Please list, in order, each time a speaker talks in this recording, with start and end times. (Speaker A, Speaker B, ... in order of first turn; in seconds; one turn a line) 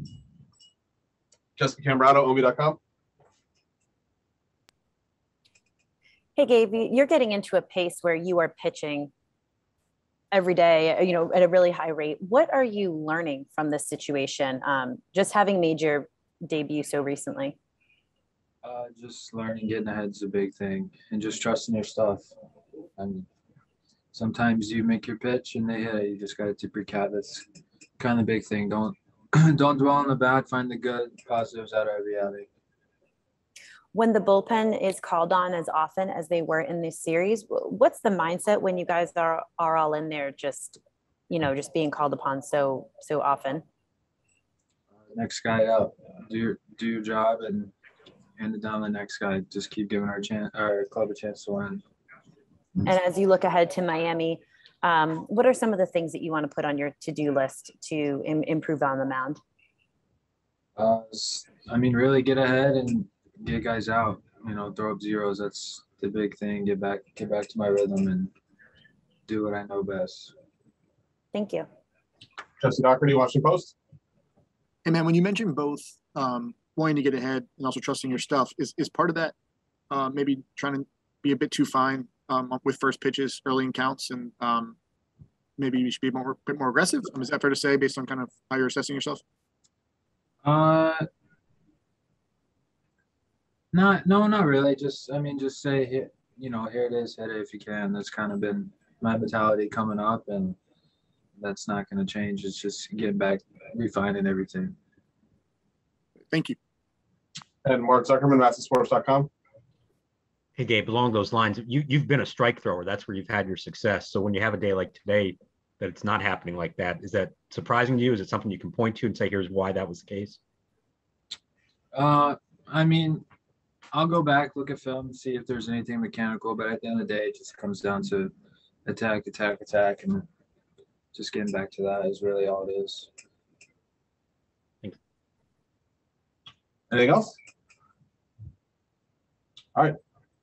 Speaker A: 1.6-2.8
Speaker B: 6.3-9.1
Speaker B: 10.3-17.6
Speaker C: 18.6-22.3
Speaker C: 23.0-23.2
Speaker C: 24.1-27.4
Speaker C: 28.0-32.5
Speaker B: 33.9-43.6
Speaker C: 45.1-47.7
Speaker C: 48.4-51.8
Speaker B: 52.8-59.4
Speaker C: 60.8-68.3
Speaker C: 69.2-70.3
Speaker B: 71.3-71.7
Speaker A: 72.6-73.7
Speaker D: 74.8-79.3
Speaker D: 79.9-84.8
Speaker D: 85.6-89.2
Speaker C: 90.4-91.0
Speaker C: 93.7-100.5
Speaker C: 101.4-104.8
Speaker D: 106.3-106.5
Speaker A: 107.6-109.3
Speaker E: 110.5-120.4
Speaker C: 121.9-123.2
Speaker C: 123.9-128.3
Speaker C: 128.8-130.2
Speaker C: 131.1-133.1
Speaker A: 136.9-137.3